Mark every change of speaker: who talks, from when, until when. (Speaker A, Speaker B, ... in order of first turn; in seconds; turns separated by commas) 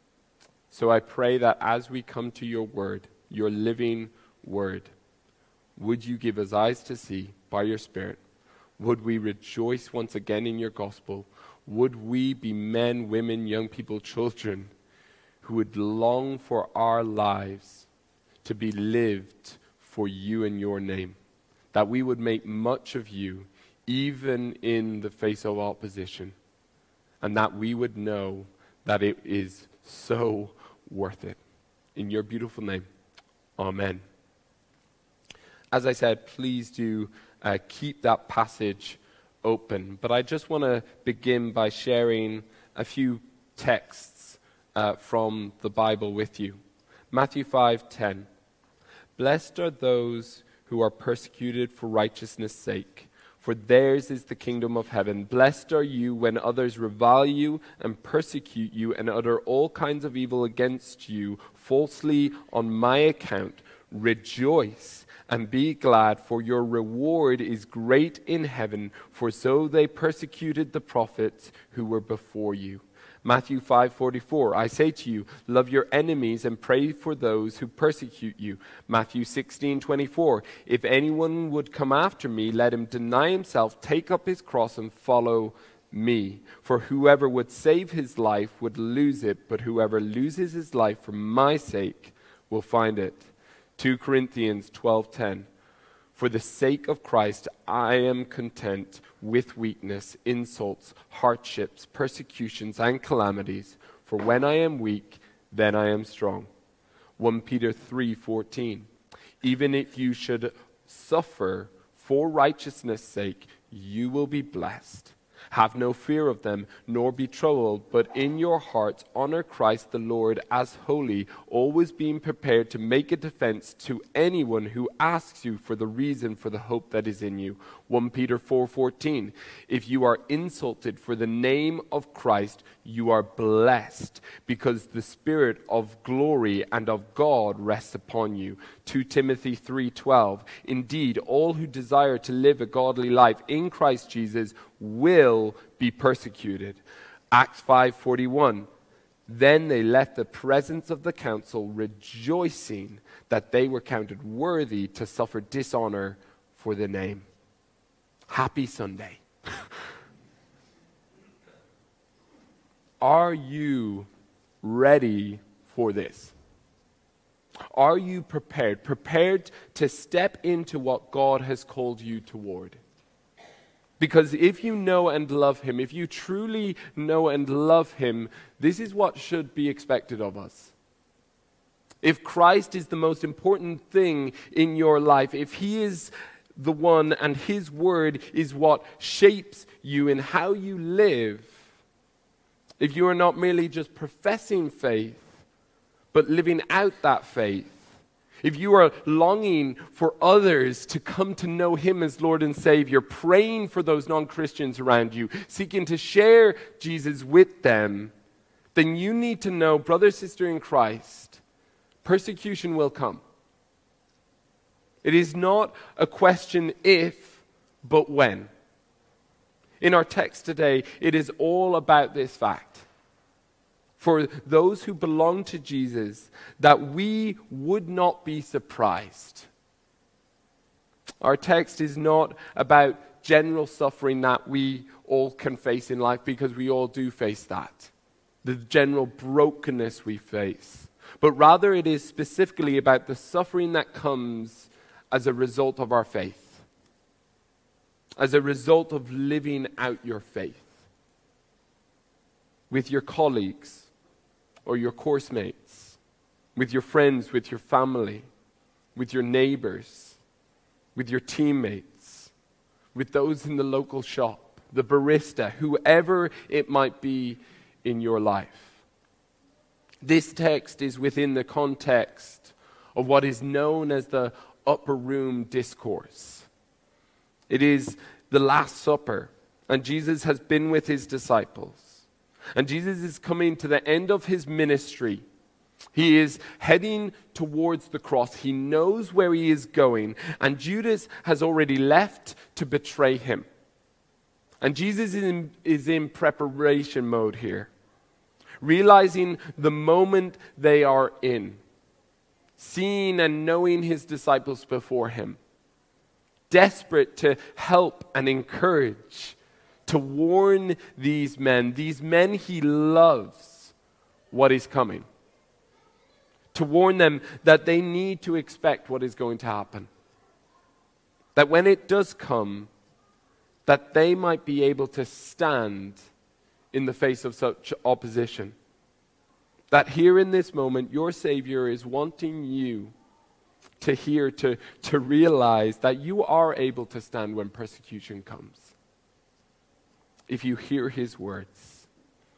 Speaker A: 0.7-4.9, Speaker A: 5.8-8.2, Speaker A: 8.8-14.7, Speaker A: 15.4-17.9, Speaker A: 18.4-21.2, Speaker A: 21.7-26.4, Speaker A: 27.2-31.4, Speaker A: 31.9-32.9, Speaker A: 33.6-34.0, Speaker A: 35.7-46.6, Speaker A: 47.1-48.3, Speaker A: 49.2-95.5, Speaker A: 96.1-106.5, Speaker A: 107.2-108.9, Speaker A: 109.4-148.7, Speaker A: 149.3-157.3, Speaker A: 158.3-159.2, Speaker A: 163.0-164.1, Speaker A: 164.6-166.3, Speaker A: 167.7-172.8, Speaker A: 174.0-180.7, Speaker A: 182.0-191.5, Speaker A: 192.8-195.3, Speaker A: 196.1-197.8, Speaker A: 198.4-208.1, Speaker A: 208.7-211.4, Speaker A: 212.0-213.2, Speaker A: 215.0-218.5, Speaker A: 219.8-222.8, Speaker A: 224.0-229.5, Speaker A: 231.2-237.9, Speaker A: 238.4-246.6, Speaker A: 248.2-250.7, Speaker A: 252.7-253.9, Speaker A: 254.6-256.0, Speaker A: 256.6-258.3, Speaker A: 258.9-260.2, Speaker A: 260.9-262.3, Speaker A: 262.9-268.8, Speaker A: 270.0-276.5, Speaker A: 277.5-282.0, Speaker A: 282.5-285.2, Speaker A: 285.9-293.5, Speaker A: 294.6-297.7, Speaker A: 298.6-301.6, Speaker A: 302.6-305.4, Speaker A: 306.5-313.7, Speaker A: 314.3-315.1, Speaker A: 316.5-319.9, Speaker A: 321.3-322.7, Speaker A: 323.6-326.0, Speaker A: 326.7-328.6, Speaker A: 329.7-332.9, Speaker A: 333.8-338.7, Speaker A: 340.3-341.9